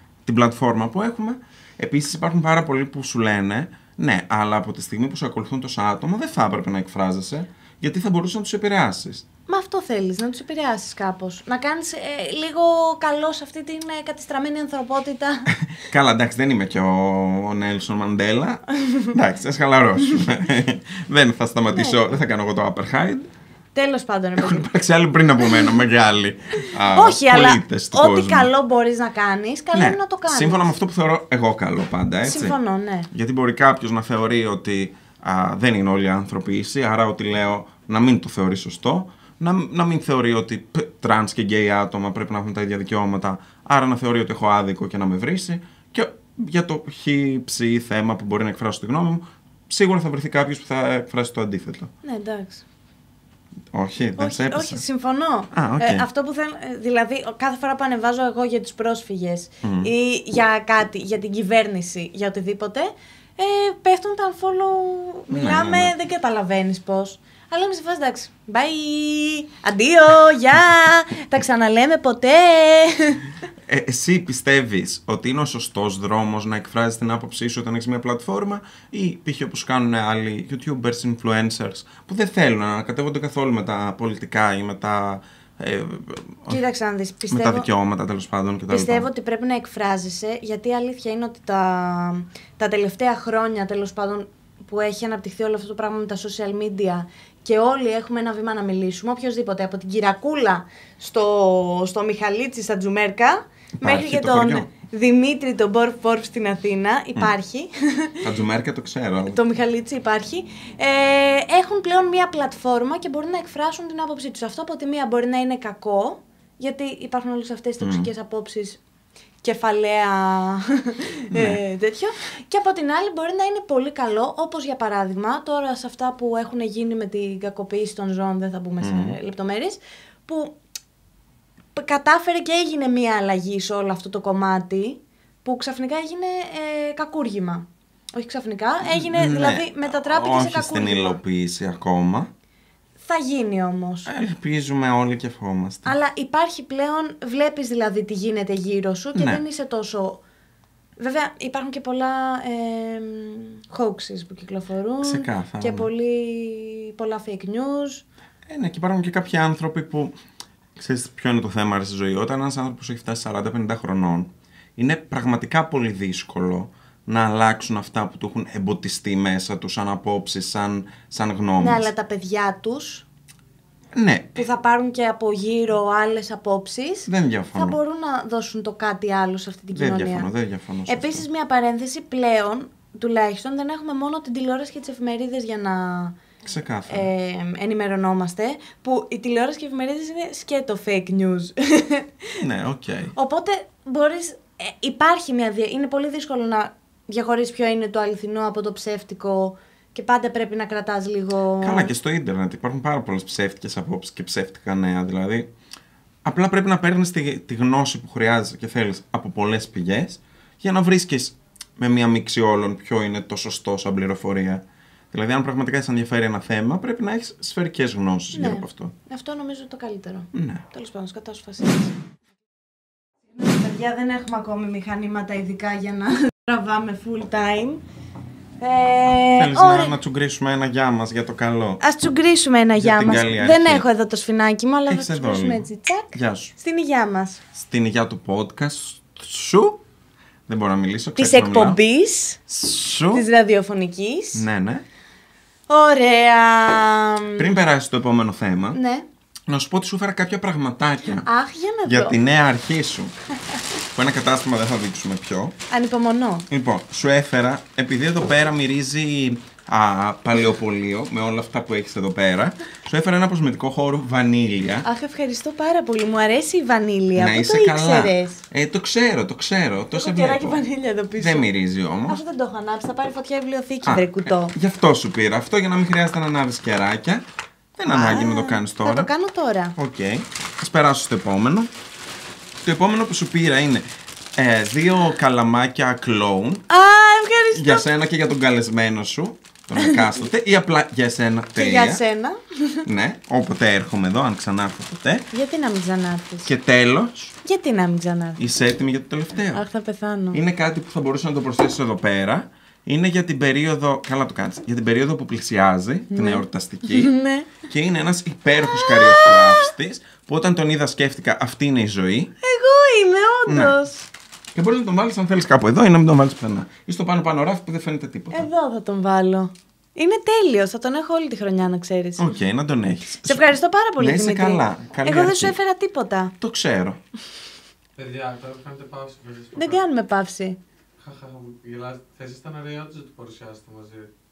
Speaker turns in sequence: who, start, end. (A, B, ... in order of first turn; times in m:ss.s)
0:00.2-0:09.2 A
0:09.5-0:15.5 B
0:15.5-0:23.3 A
0:18.8-0:19.1 B
0:23.7-0:24.7 B
0:24.4-0:28.5 A
0:26.9-0:30.7 B
0:29.7-0:32.6 A
0:32.2-0:33.1 B
0:33.1-0:51.9 A
0:52.0-0:52.6 B
0:53.7-0:54.8 A
0:54.2-1:13.3 B
0:55.5-0:56.0 A
0:59.6-0:59.9 A
1:05.3-1:05.9 A
1:13.6-1:26.6 A
1:26.5-1:27.7 B
1:27.3-1:29.1 A
1:28.7-1:48.2 B
1:43.8-1:44.7 A
1:48.2-1:49.4 A
1:49.2-1:58.8 B
1:57.8-1:58.1 A
1:59.4-2:10.5 B
2:01.3-2:01.6 A
2:08.8-2:09.2 A
2:11.8-2:21.2 B
2:18.8-2:22.3 A
2:23.0-2:24.1 B
2:24.0-2:25.9 A
2:25.8-2:30.2 B
2:29.1-2:29.4 A
2:31.0-2:38.0 B
2:35.0-2:35.9 A
2:38.5-2:40.1 A
2:40.8-2:51.9 A
2:51.6-2:53.0 B
2:53.9-2:54.5 A
2:54.4-3:00.3 B
2:57.0-2:57.8 A
2:59.7-3:01.2 A
3:00.9-3:06.2 B
3:06.4-3:07.1 A
3:06.9-3:12.3 B
3:12.4-3:13.1 A
3:13.1-3:21.9 B
3:21.6-3:25.5 A
3:26.2-3:38.9 A
3:38.3-3:41.9 B
3:40.3-3:40.6 A
3:43.3-3:47.8 B
3:48.6-3:50.0 B
3:49.3-3:51.8 A
3:51.8-3:57.4 B
3:52.8-3:53.8 A
3:54.9-3:56.5 A
3:57.5-3:59.8 A
4:00.5-4:01.8 A
4:01.2-4:02.4 B
4:02.5-4:03.2 A
4:03.1-4:04.4 B
4:04.3-4:04.8 A
4:05.7-4:07.5 B
4:07.4-4:08.8 A
4:08.7-4:09.0 B
4:09.5-4:11.3 A
4:11.2-4:12.2 B
4:11.8-4:13.1 A
4:13.9-4:15.6 A
4:15.7-4:16.5 B
4:16.5-4:24.9 A
4:24.8-4:28.4 B
4:27.1-4:30.6 A
4:29.9-4:31.5 B
4:31.2-4:32.2 A
4:32.1-4:34.5 B
4:33.8-4:39.1 A
4:37.9-4:39.7 B
4:39.8-4:41.7 A
4:42.6-4:43.8 A
4:44.4-4:46.6 A
4:46.7-4:47.9 B
4:47.5-4:52.0 A
4:51.6-4:52.8 B
4:52.8-4:55.3 A
4:55.3-4:56.5 B
4:56.4-4:57.4 A
4:57.4-4:58.4 B
4:58.4-4:59.6 A
4:59.5-5:00.4 B
5:00.3-5:12.3 A
5:06.1-5:07.6 B
5:08.8-5:09.7 B
5:12.4-5:14.1 B
5:13.4-5:13.8 A
5:14.5-5:18.5 A
5:18.3-5:22.2 B
5:22.2-5:25.5 A
5:23.2-5:26.3 B
5:26.4-5:27.0 A
5:28.0-5:29.8 C
5:29.6-5:30.6 B
5:31.0-5:34.1 C